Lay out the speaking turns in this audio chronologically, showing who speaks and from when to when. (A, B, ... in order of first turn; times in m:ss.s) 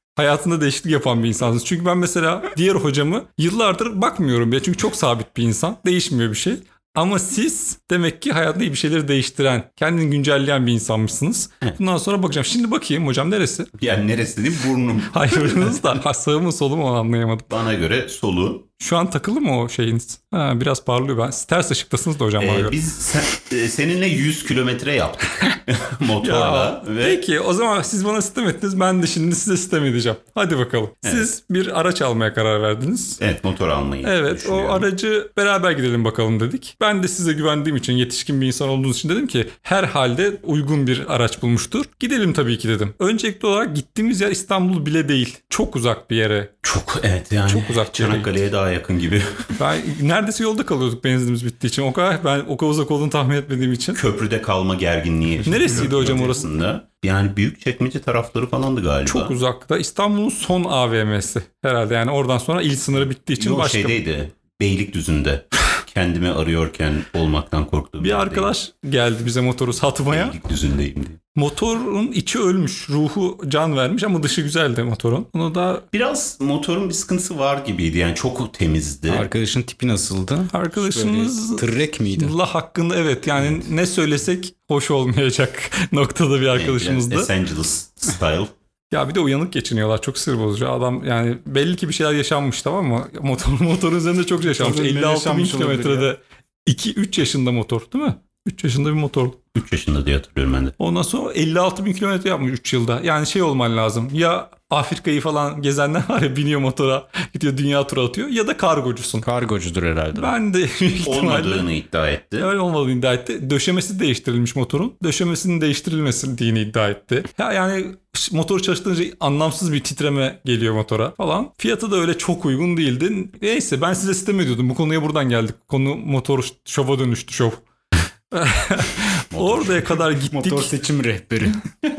0:00.1-0:13.7 A
0:13.8-0:16.0 B
0:15.1-0:17.5 A
0:17.5-0:18.7 B
0:18.8-0:22.7 A
0:22.4-0:27.2 B
0:26.2-0:33.2 A
0:31.0-0:31.3 B
0:33.2-0:34.8 B
0:34.0-0:46.5 A
0:46.6-0:49.6 B
0:47.5-0:48.3 A
0:49.6-0:54.0 A
0:53.9-0:59.3 B
0:55.4-0:56.5 A
0:59.0-1:04.0 A
1:03.4-1:08.5 B
1:08.0-1:10.3 A
1:10.1-1:11.2 B
1:11.3-1:15.8 A
1:15.9-1:19.3 B
1:19.1-1:22.3 C
1:20.5-1:27.3 A
1:26.5-1:28.5 B
1:28.9-1:39.4 A
1:34.4-1:36.1 C
1:39.5-1:40.8 B
1:40.8-1:49.2 A
1:49.2-1:50.3 C
1:50.1-1:51.6 A
1:51.0-1:52.5 B
1:52.4-2:07.6 A
2:08.3-2:10.7 A
2:09.3-2:09.8 B
2:10.3-2:11.6 C